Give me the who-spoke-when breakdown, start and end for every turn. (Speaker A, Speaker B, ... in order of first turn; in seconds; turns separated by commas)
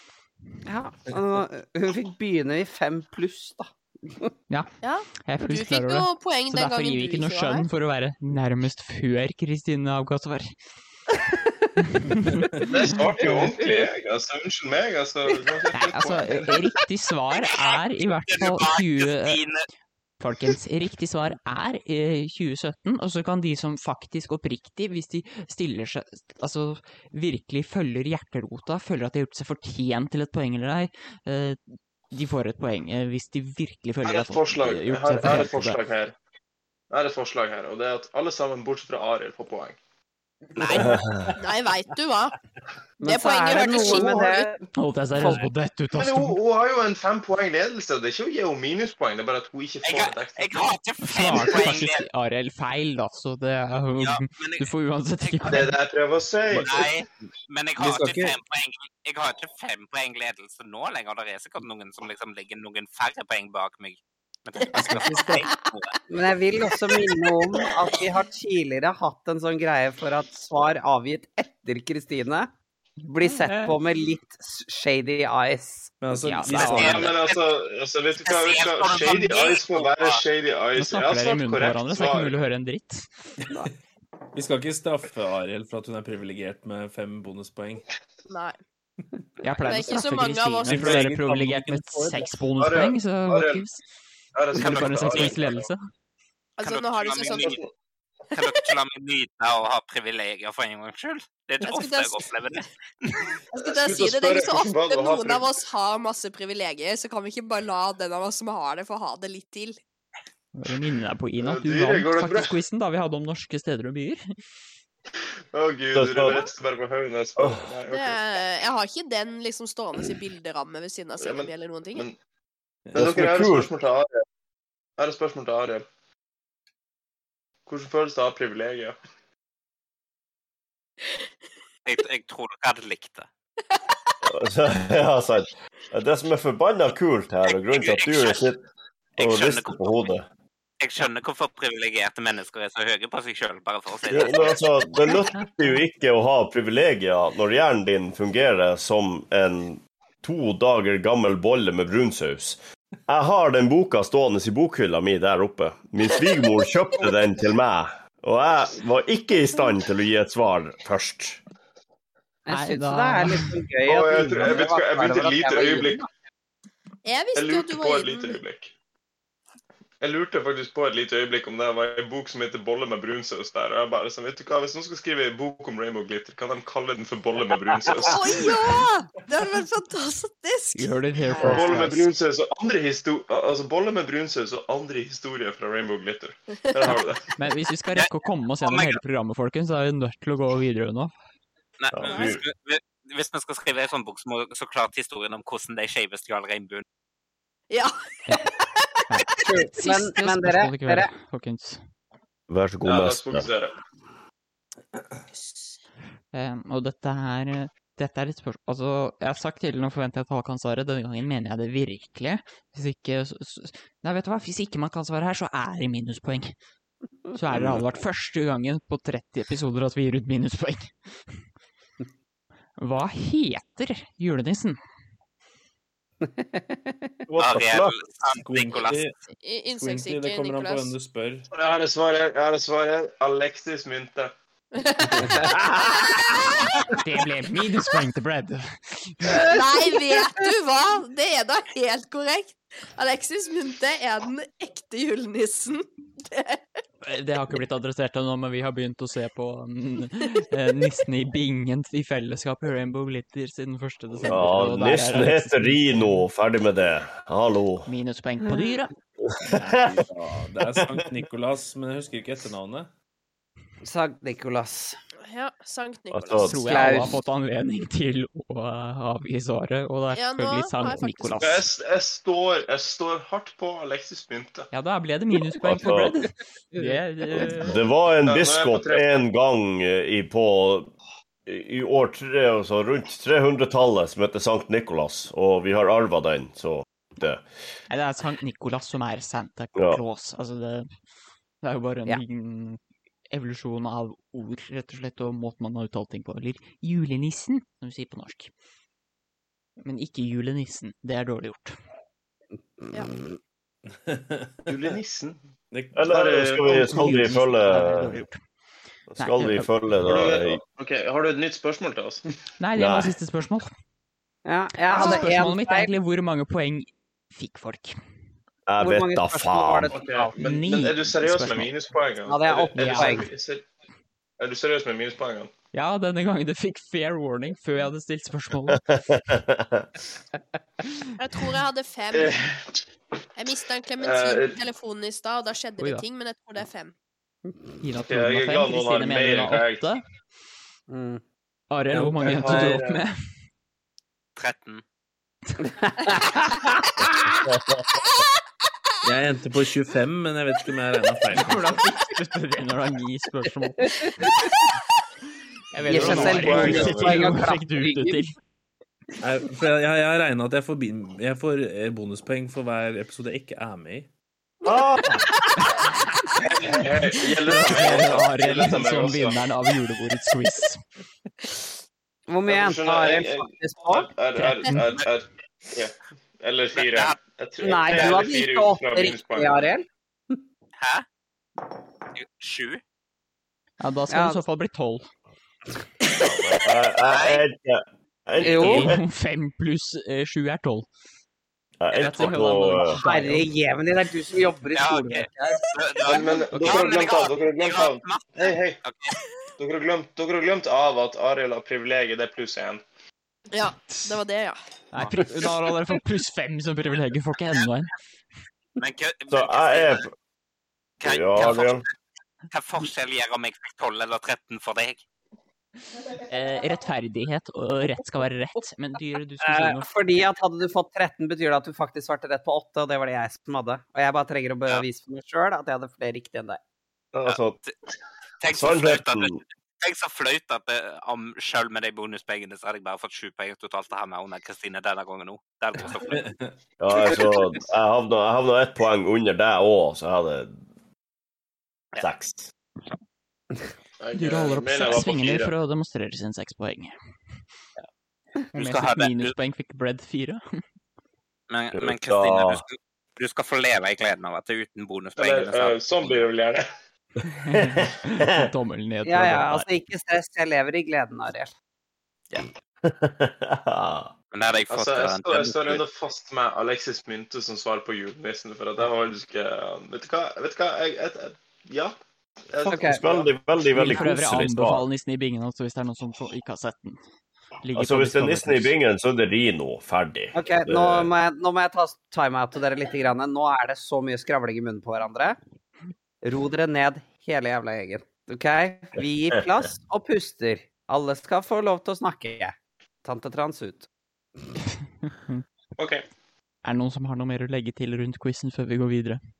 Speaker A: 0.7-4.3, Speaker B: 4.8-7.7, Speaker C: 5.2-10.5, Speaker C: 11.8-12.5, Speaker D: 12.6-16.5, Speaker A: 13.2-13.9, Speaker C: 15.7-19.4, Speaker E: 17.4-19.6, Speaker C: 20.2-31.6, Speaker C: 32.1-35.8, Speaker D: 34.0-36.1, Speaker D: 36.9-39.8, Speaker B: 40.6-42.3, Speaker F: 40.7-41.3, Speaker A: 43.0-44.6, Speaker B: 43.0-44.5, Speaker C: 44.7-46.4, Speaker A: 45.1-45.4, Speaker D: 45.9-50.6, Speaker E: 49.8-52.0, Speaker C: 51.0-55.8, Speaker E: 54.0-54.7, Speaker D: 55.5-56.9, Speaker E: 56.6-65.9, Speaker A: 57.8-58.4, Speaker G: 64.8-65.5, Speaker B: 64.8-65.6, Speaker A: 66.1-72.5, Speaker A: 73.0-75.9, Speaker C: 73.2-73.7, Speaker G: 76.0-77.2, Speaker C: 76.1-77.1, Speaker E: 76.5-77.5, Speaker D: 76.8-82.4, Speaker E: 78.1-80.2, Speaker C: 80.7-83.1, Speaker G: 84.3-87.8, Speaker B: 88.3-88.6, Speaker C: 89.4-93.8, Speaker B: 89.6-91.0, Speaker G: 90.6-92.3, Speaker D: 92.6-93.6, Speaker D: 94.3-95.7, Speaker C: 94.5-95.8, Speaker B: 96.6-97.6, Speaker E: 96.6-97.6, Speaker D: 97.3-97.7, Speaker E: 98.3-103.3, Speaker B: 101.6-102.3, Speaker B: 103.5-109.8, Speaker D: 103.6-105.5, Speaker C: 110.5-114.2, Speaker D: 111.4-112.5, Speaker D: 115.5-118.2, Speaker F: 115.9-116.4, Speaker F: 117.4-117.7, Speaker B: 117.9-122.0, Speaker D: 121.2-122.2, Speaker F: 122.9-123.7, Speaker D: 122.9-124.1, Speaker D: 125.0-125.9, Speaker D: 127.7-128.9, Speaker E: 131.8-133.3, Speaker F: 134.2-138.6, Speaker E: 137.7-138.4, Speaker E: 139.2-140.1, Speaker F: 139.2-140.3, Speaker E: 140.8-144.7, Speaker F: 144.1-161.4, Speaker A: 162.4-166.1, Speaker C: 162.5-163.6, Speaker D: 163.8-166.0, Speaker B: 167.0-168.4, Speaker D: 167.3-168.7, Speaker D: 170.0-178.5, Speaker B: 178.0-180.9, Speaker C: 180.7-182.1, Speaker A: 181.4-181.7, Speaker D: 181.4-187.3, Speaker C: 187.4-191.1, Speaker E: 188.6-189.0, Speaker E: 191.8-196.8, Speaker F: 191.9-192.4, Speaker B: 192.0-192.4, Speaker B: 197.7-198.9, Speaker C: 199.1-201.8, Speaker A: 199.4-201.1, Speaker F: 202.5-203.5, Speaker D: 202.8-203.7, Speaker B: 205.3-205.8, Speaker C: 206.3-216.5, Speaker C: 217.3-220.9, Speaker F: 217.5-217.9, Speaker C: 222.8-224.8, Speaker A: 226.2-226.9, Speaker F: 227.3-228.0, Speaker E: 227.4-229.0, Speaker G: 228.4-229.2, Speaker B: 229.4-230.9, Speaker G: 229.7-231.5, Speaker D: 231.5-234.3, Speaker B: 234.7-236.8, Speaker A: 235.4-236.0, Speaker C: 237.0-239.4, Speaker B: 239.5-246.6, Speaker C: 247.0-256.2, Speaker F: 254.2-257.9, Speaker C: 257.9-258.9, Speaker A: 258.4-258.7, Speaker F: 259.4-260.1, Speaker G: 259.5-262.9, Speaker F: 260.6-261.2, Speaker A: 263.8-265.0, Speaker B: 265.2-266.9, Speaker F: 266.1-266.7, Speaker C: 266.4-271.6, Speaker A: 266.7-267.2, Speaker B: 270.1-271.6, Speaker D: 271.4-274.7, Speaker C: 274.7-277.8, Speaker F: 275.6-276.2, Speaker A: 276.8-277.5, Speaker F: 277.6-280.9, Speaker D: 278.2-279.2, Speaker F: 281.4-287.4, Speaker C: 287.9-290.9, Speaker F: 289.8-290.0, Speaker C: 291.6-292.8, Speaker C: 293.3-298.5, Speaker C: 299.8-301.7, Speaker A: 302.8-303.3, Speaker G: 303.9-304.7, Speaker D: 304.7-305.4, Speaker G: 305.7-306.1, Speaker F: 305.9-308.2, Speaker D: 306.1-307.2, Speaker C: 306.7-308.4, Speaker F: 309.1-310.6, Speaker C: 309.2-309.7, Speaker D: 310.0-312.2, Speaker C: 312.6-313.7, Speaker F: 312.7-313.2, Speaker A: 314.4-315.9, Speaker C: 314.9-318.0, Speaker F: 318.7-319.9, Speaker A: 318.8-320.4, Speaker D: 319.9-323.6, Speaker C: 320.4-321.7, Speaker A: 322.2-323.3, Speaker C: 322.7-323.2, Speaker D: 324.4-325.5, Speaker C: 325.7-328.8, Speaker F: 328.7-329.9, Speaker B: 331.2-332.4, Speaker D: 332.1-332.8, Speaker B: 333.4-336.9, Speaker D: 334.0-334.6, Speaker C: 335.8-336.0, Speaker C: 337.8-340.0, Speaker D: 337.9-339.9, Speaker A: 340.9-341.2, Speaker C: 341.7-343.2, Speaker D: 341.9-343.0, Speaker E: 344.4-344.8, Speaker A: 345.7-347.4, Speaker F: 347.5-347.8, Speaker G: 349.0-351.8, Speaker C: 351.3-353.9, Speaker C: 355.7-358.3, Speaker A: 355.8-358.3, Speaker D: 356.0-357.3, Speaker G: 356.0-356.6, Speaker G: 359.2-364.1, Speaker F: 364.6-365.2, Speaker C: 365.6-366.4, Speaker D: 366.4-369.4, Speaker C: 367.1-370.8, Speaker A: 372.3-374.1, Speaker D: 372.4-379.6, Speaker C: 374.4-375.0, Speaker E: 376.7-377.2, Speaker A: 377.6-380.4, Speaker E: 380.8-381.0, Speaker E: 382.1-382.8, Speaker C: 383.8-385.1, Speaker A: 384.1-384.4, Speaker F: 386.1-389.0, Speaker E: 387.0-387.4, Speaker C: 388.4-390.9, Speaker A: 388.4-388.9, Speaker F: 391.8-393.0, Speaker C: 391.9-393.5, Speaker A: 393.0-395.6, Speaker E: 394.7-399.2, Speaker D: 396.0-398.8, Speaker D: 399.6-402.8, Speaker B: 403.5-404.6, Speaker C: 404.9-407.9, Speaker E: 408.8-410.0, Speaker F: 409.3-410.1, Speaker E: 411.0-411.9, Speaker F: 411.0-411.8, Speaker E: 412.5-415.0, Speaker C: 416.2-419.9, Speaker A: 419.4-426.6, Speaker F: 427.1-427.6, Speaker E: 427.2-427.7, Speaker E: 428.4-436.2, Speaker F: 428.5-429.4, Speaker G: 436.0-436.5, Speaker F: 436.8-440.6, Speaker F: 442.0-442.5, Speaker D: 444.0-445.5, Speaker C: 444.1-446.9, Speaker C: 448.5-450.4, Speaker E: 448.5-449.3, Speaker E: 451.5-456.2, Speaker F: 451.7-452.6, Speaker D: 455.2-456.6, Speaker C: 457.3-459.6, Speaker F: 457.5-458.3, Speaker A: 459.0-461.5, Speaker F: 462.8-464.1, Speaker E: 464.3-465.8, Speaker D: 464.7-471.9, Speaker D: 472.5-473.3, Speaker F: 472.6-474.8, Speaker A: 472.7-473.0, Speaker C: 473.7-477.0, Speaker C: 477.6-478.7, Speaker F: 477.7-481.1, Speaker A: 480.3-485.4, Speaker A: 486.2-493.9, Speaker C: 495.1-495.4, Speaker D: 495.8-496.0, Speaker C: 496.6-499.2